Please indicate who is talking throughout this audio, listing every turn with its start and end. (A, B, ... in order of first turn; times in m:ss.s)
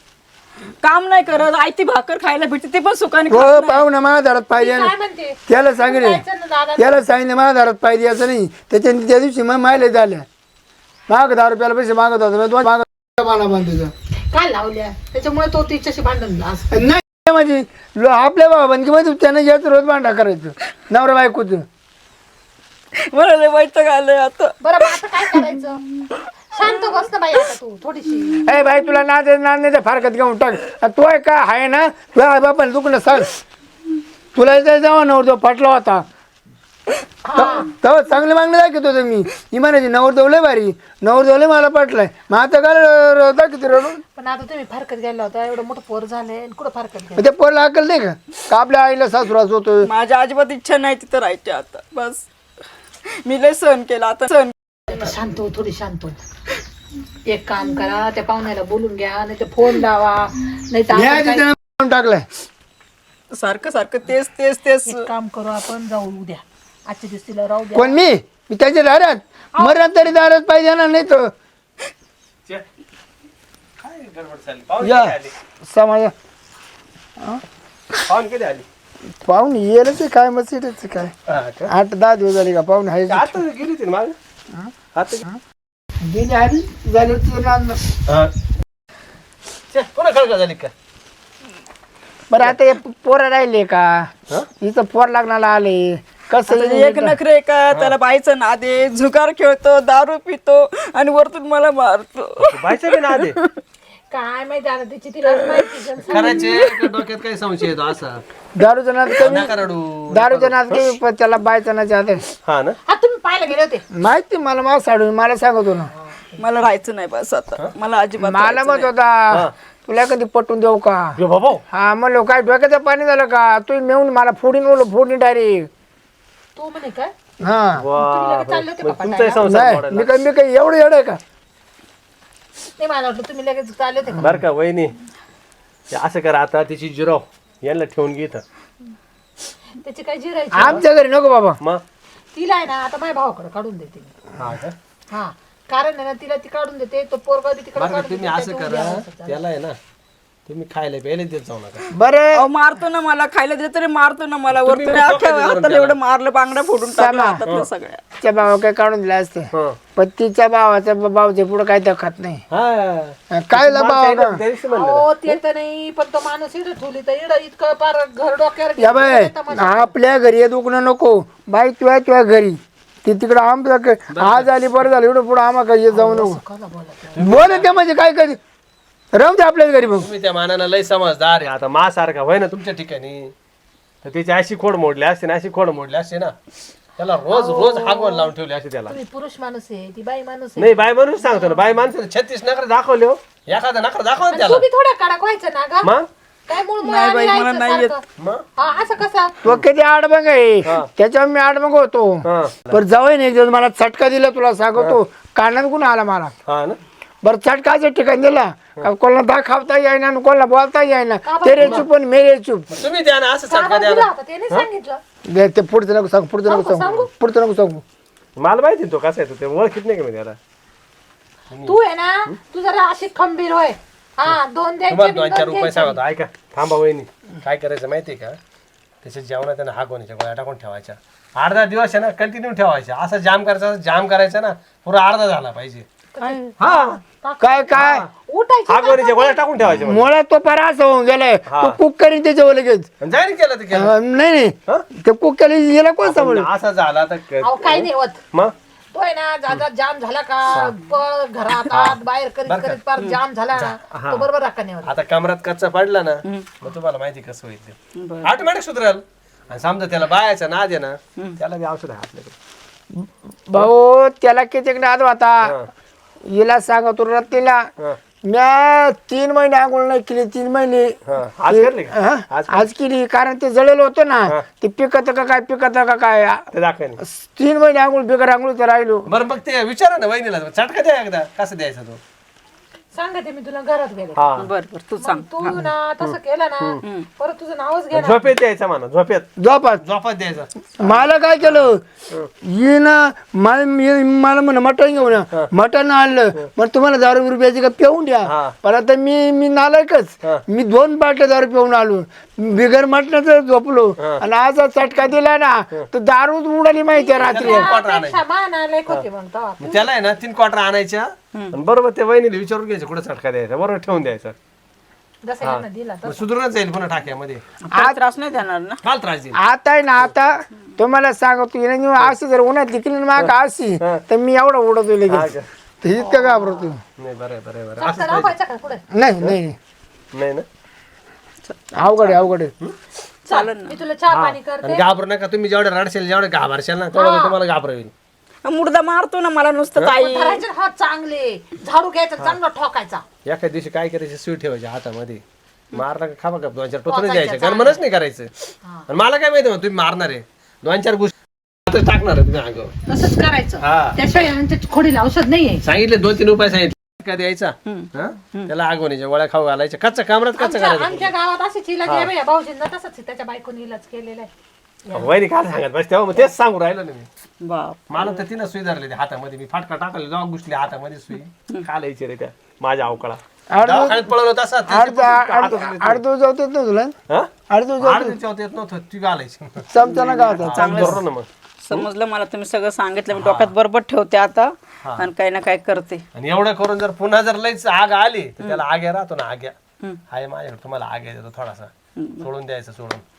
0:00.8-0:03.8 A
0:03.3-0:04.9 B
0:04.6-0:07.1 C
0:05.5-0:06.2 B
0:06.8-0:10.2 B
0:11.1-0:13.9 B
0:14.3-0:16.8 C
0:16.7-0:21.6 B
0:22.9-0:25.5 A
0:24.6-0:25.8 C
0:26.5-0:28.4 C
0:28.4-0:33.3 B
0:34.3-0:36.0 B
0:37.2-0:37.7 C
0:37.4-0:44.0 B
0:44.2-0:47.3 C
0:47.2-0:49.9 B
0:49.8-0:52.2 A
0:53.0-0:54.5 A
0:54.9-0:56.2 C
0:57.3-1:01.4 C
1:00.9-1:02.2 B
1:03.3-1:05.1 A
1:04.8-1:08.0 C
1:07.7-1:11.3 B
1:09.6-1:09.9 C
1:13.8-1:15.3 D
1:14.8-1:16.1 B
1:17.2-1:17.4 B
1:18.0-1:18.6 D
1:19.2-1:21.1 B
1:21.3-1:21.7 D
1:21.7-1:23.4 B
1:23.1-1:24.2 D
1:24.9-1:25.2 D
1:26.0-1:27.8 B
1:28.1-1:28.3 D
1:29.7-1:30.7 D
1:32.3-1:37.2 B
1:36.4-1:43.4 A
1:42.4-1:43.4 D
1:44.1-1:46.7 C
1:46.1-1:48.2 D
1:46.4-1:46.8 A
1:48.5-1:49.5 B
1:49.1-1:50.8 D
1:50.1-1:52.2 B
1:52.4-1:52.8 D
1:52.9-1:53.8 C
1:53.9-1:55.9 B
1:56.0-1:56.4 C
1:56.4-1:58.9 A
1:58.2-2:01.2 B
2:01.2-2:01.6 D
2:01.7-2:05.7 B
2:06.6-2:07.1 C
2:07.4-2:07.8 B
2:07.8-2:10.1 D
2:07.9-2:09.5 C
2:09.4-2:11.2 B
2:12.8-2:14.3 C
2:14.2-2:14.9 D
2:15.9-2:18.4 D
2:19.8-2:20.8 C
2:20.5-2:21.6 B
2:22.3-2:24.1 C
2:24.4-2:24.7 D
2:25.1-2:29.4 C
2:27.8-2:29.8 D
2:30.4-2:31.9 D
2:31.9-2:32.4 B
2:32.3-2:38.0 A
2:34.5-2:36.0 D
2:36.9-2:37.4 B
2:38.2-2:42.4 B
2:39.5-2:39.8 D
2:42.5-2:45.4 D
2:43.3-2:44.4 B
2:44.7-2:49.9 C
2:48.8-2:56.4 B
2:54.1-2:54.5 D
2:55.9-2:57.4 C
2:57.2-2:57.7 D
2:57.2-2:58.4 B
2:59.1-3:00.1 B
3:00.0-3:03.3 D
3:04.0-3:06.3 D
3:07.0-3:09.0 D
3:07.3-3:08.3 C
3:08.9-3:11.6 C
3:10.6-3:14.6 D
3:14.3-3:15.9 C
3:16.5-3:18.0 C
3:16.8-3:17.9 A
3:18.2-3:18.4 D
3:18.6-3:19.3 C
3:19.4-3:26.3 B
3:22.2-3:22.8 D
3:26.5-3:26.8 D
3:27.2-3:32.7 B
3:31.2-3:31.9 C
3:32.7-3:34.6 D
3:33.5-3:35.0 C
3:35.3-3:37.8 B
3:36.5-3:37.1 C
3:38.4-3:40.4 D
3:41.5-3:42.3 D
3:41.6-3:46.0 C
3:44.9-3:48.4 D
3:49.0-3:55.8 D
3:56.1-3:59.4 C
3:56.6-3:57.0 D
3:57.4-3:58.0 B
3:57.7-3:58.1 D
3:58.7-4:00.1 D
3:59.8-4:02.9 B
4:01.5-4:01.8 D
4:03.0-4:03.9 D
4:03.7-4:06.5 B
4:06.0-4:08.5 D
4:07.4-4:08.2 C
4:08.9-4:14.9 C
4:11.7-4:12.8 D
4:13.6-4:14.3 D
4:14.8-4:22.3 D
4:16.2-4:16.5 A
4:18.0-4:18.4 A
4:22.9-4:25.5 B
4:25.4-4:25.7 D
4:26.2-4:27.7 B
4:28.3-4:31.0 B
4:31.0-4:32.7 D
4:31.5-4:36.4 B
4:36.5-4:37.0 D
4:37.0-4:39.1 B
4:39.1-4:42.0 D
4:42.9-4:44.4 C
4:44.2-4:44.5 D
4:44.4-4:45.2 A
4:45.0-4:48.3 C
4:46.0-4:46.8 D
4:47.9-4:49.3 D
4:49.4-4:49.8 B
4:49.8-4:52.3 D
4:50.8-4:51.8 B
4:52.4-5:07.7 B
4:58.2-4:58.5 D
5:06.9-5:09.8 C
5:07.2-5:08.2 D
5:09.6-5:14.4 D
5:15.2-5:16.2 C
5:15.4-5:17.4 D
5:17.7-5:18.8 A
5:18.8-5:19.4 D
5:19.3-5:26.8 B
5:23.2-5:24.0 D
5:25.1-5:25.5 D
5:27.0-5:28.3 D
5:27.8-5:28.8 C
5:28.9-5:29.6 B
5:30.1-5:30.4 D
5:31.4-5:32.2 A
5:31.8-5:32.5 B
5:33.2-5:33.8 A
5:33.3-5:34.8 C
5:34.1-5:37.9 D
5:36.9-5:37.4 C
5:38.4-5:40.4 A
5:39.9-5:43.0 C
5:43.2-5:45.2 D
5:45.7-5:48.3 D
5:46.9-5:47.8 C
5:48.9-5:51.1 D
5:51.6-5:52.7 D
5:52.9-5:55.6 C
5:53.6-5:54.0 D
5:55.6-6:01.1 D
5:57.6-5:58.5 A
6:00.4-6:04.3 C
6:01.8-6:02.1 D
6:04.8-6:05.1 C
6:04.9-6:07.1 D
6:07.4-6:08.2 A
6:07.9-6:16.0 D
6:13.5-6:14.1 B
6:14.7-6:17.0 B
6:17.1-6:19.7 D
6:17.5-6:18.2 B
6:19.7-6:21.0 B
6:19.8-6:21.0 A
6:20.4-6:21.8 D
6:21.6-6:26.0 A
6:23.1-6:23.5 D
6:26.1-6:29.6 D
6:30.1-6:33.0 D
6:32.0-6:32.3 A